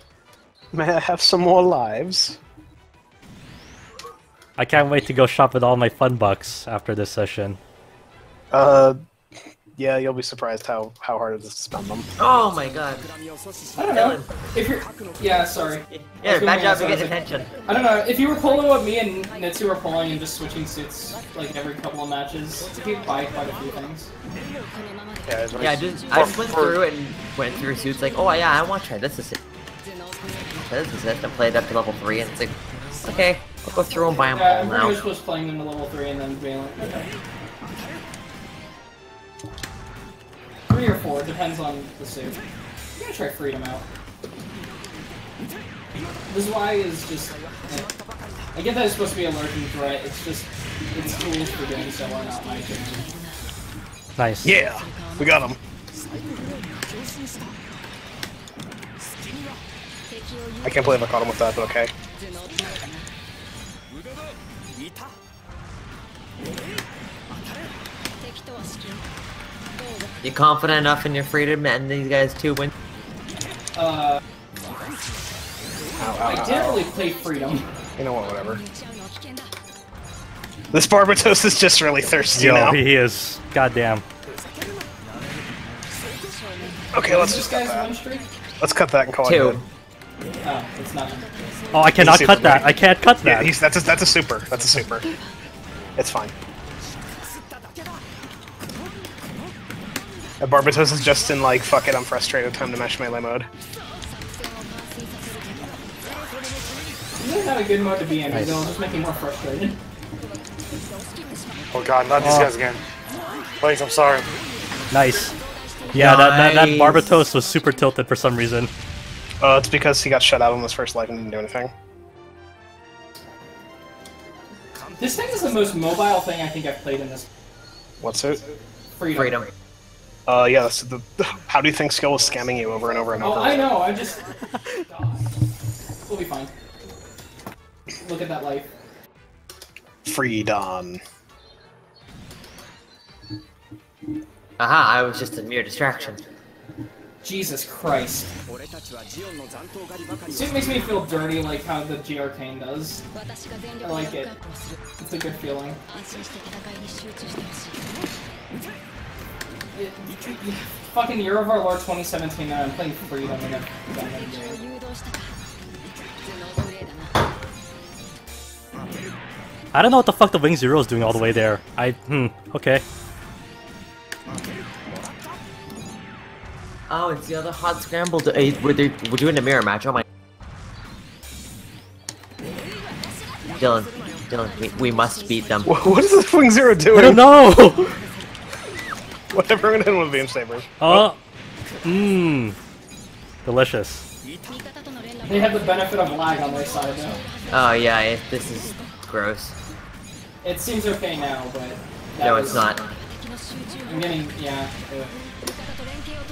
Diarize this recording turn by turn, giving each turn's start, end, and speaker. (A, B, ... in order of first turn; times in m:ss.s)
0:00.7-0:02.4 A
0:04.6-0:07.6 B
0:08.5-0:09.0 A
0:09.8-0:12.1 A
0:12.2-0:13.1 C
0:13.7-0:24.1 D
0:13.9-0:14.3 C
0:15.9-0:17.5 C
0:25.2-0:26.8 E
0:25.6-0:29.4 C
0:30.5-0:35.0 C
0:34.3-0:37.1 D
0:40.7-0:42.4 D
0:42.9-0:43.8 D
0:46.3-0:47.9 D
0:48.5-0:53.0 D
0:54.2-0:54.5 B
0:54.4-0:55.6 A
1:00.6-1:01.9 A
1:10.2-1:12.7 C
1:13.8-1:14.2 D
1:16.0-1:16.8 A
1:16.2-1:17.6 D
1:18.0-1:18.6 A
1:20.7-1:22.8 A
1:22.3-1:24.0 B
1:26.9-1:27.9 A
1:27.0-1:28.3 D
1:28.6-1:29.6 A
1:29.2-1:29.6 C
1:30.4-1:31.3 D
1:31.7-1:33.5 B
1:32.0-1:32.7 A
1:33.2-1:35.1 A
1:36.0-1:36.3 A
1:40.4-1:43.5 A
1:47.2-1:49.8 D
1:48.3-1:48.6 B
1:51.7-1:52.8 E
1:52.2-1:52.5 B
1:53.6-1:54.3 E
1:54.9-1:55.4 B
1:55.9-1:58.7 B
1:55.9-1:57.1 C
1:59.4-2:01.7 A
2:04.9-2:07.3 D
2:08.0-2:08.4 A
2:08.9-2:09.4 D
2:09.1-2:09.5 C
2:10.3-2:13.8 A
2:13.2-2:15.3 D
2:16.0-2:16.5 D
2:18.0-2:18.7 D
2:20.0-2:21.0 A
2:24.6-2:26.3 C
2:27.2-2:28.3 D
2:30.2-2:33.0 D
2:33.8-2:34.4 D
2:35.0-2:35.8 D
2:39.7-2:44.6 D
2:49.7-2:52.8 B
2:56.9-3:00.0 C
3:03.6-3:05.8 C
3:05.6-3:07.2 A
3:06.9-3:07.9 B
3:09.3-3:11.0 A
3:10.8-3:11.2 B
3:11.8-3:12.6 B
3:13.4-3:14.0 B
3:15.2-3:17.2 D
3:17.5-3:19.6 C
3:20.4-3:22.8 D
3:22.2-3:22.9 C
3:23.8-3:25.1 D